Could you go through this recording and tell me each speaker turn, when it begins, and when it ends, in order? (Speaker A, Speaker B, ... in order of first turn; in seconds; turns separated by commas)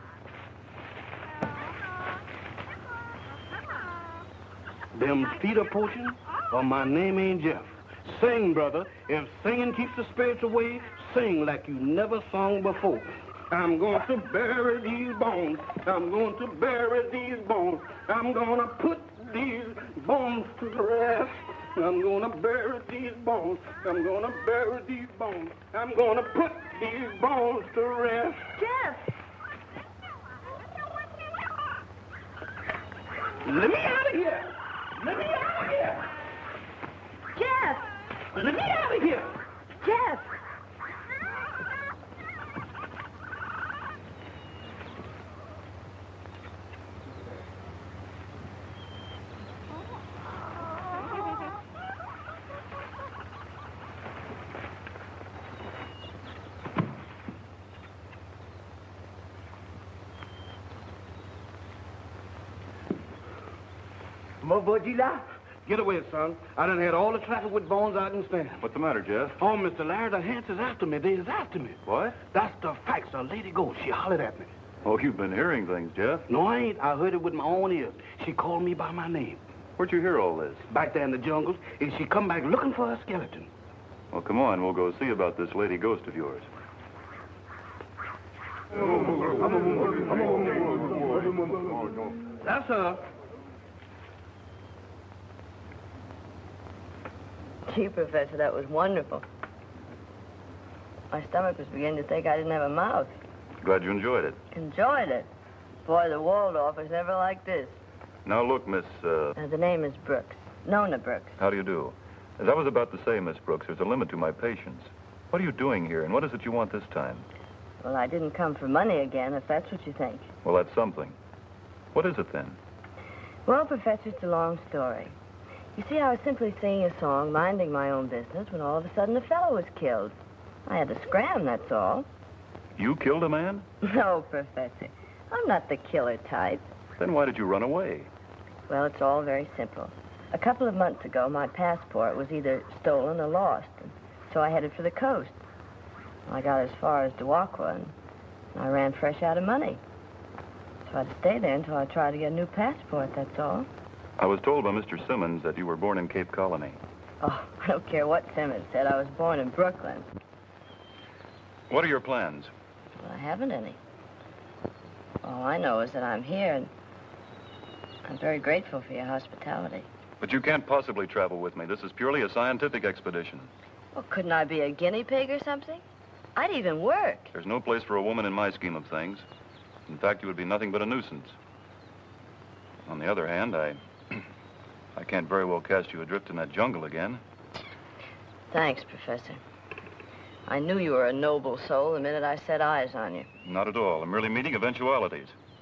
Speaker A: 4.9-28.5, Speaker B: 28.6-29.0, Speaker A: 33.5-36.1, Speaker B: 37.4-37.9, Speaker A: 38.3-39.3, Speaker B: 39.8-40.2, Speaker A: 64.4-68.6, Speaker C: 68.6-69.4, Speaker A: 69.4-74.5, Speaker C: 71.9-72.2, Speaker C: 74.8-76.3, Speaker A: 76.3-79.4, Speaker C: 79.8-80.6, Speaker A: 80.7-83.5, Speaker C: 84.1-86.5, Speaker A: 92.4-93.0, Speaker B: 97.7-99.2, Speaker B: 101.1-103.1, Speaker C: 103.6-104.4, Speaker B: 104.5-105.3, Speaker B: 105.8-107.8, Speaker C: 108.2-109.4, Speaker B: 109.4-111.3, Speaker C: 111.4-117.3, Speaker B: 117.8-120.3, Speaker C: 120.4-121.2, Speaker C: 121.9-122.6, Speaker B: 123.5-125.2, Speaker B: 125.8-130.2, Speaker B: 130.7-132.1, Speaker C: 132.8-133.7, Speaker B: 133.8-136.7, Speaker C: 137.0-138.1, Speaker B: 138.7-145.3, Speaker B: 146.3-147.9, Speaker B: 148.5-149.8, Speaker B: 150.9-153.7, Speaker C: 154.2-156.8, Speaker B: 157.2-160.1, Speaker C: 161.7-162.5, Speaker B: 163.0-163.8, Speaker B: 165.2-166.7, Speaker B: 168.1-169.9, Speaker C: 170.2-173.5, Speaker B: 173.9-175.8, Speaker B: 176.4-177.3, Speaker C: 177.3-179.2, Speaker C: 179.9-181.4, Speaker C: 182.9-184.2, Speaker C: 184.9-187.2, Speaker B: 188.5-189.4, Speaker B: 190.5-193.3, Speaker C: 193.4-195.3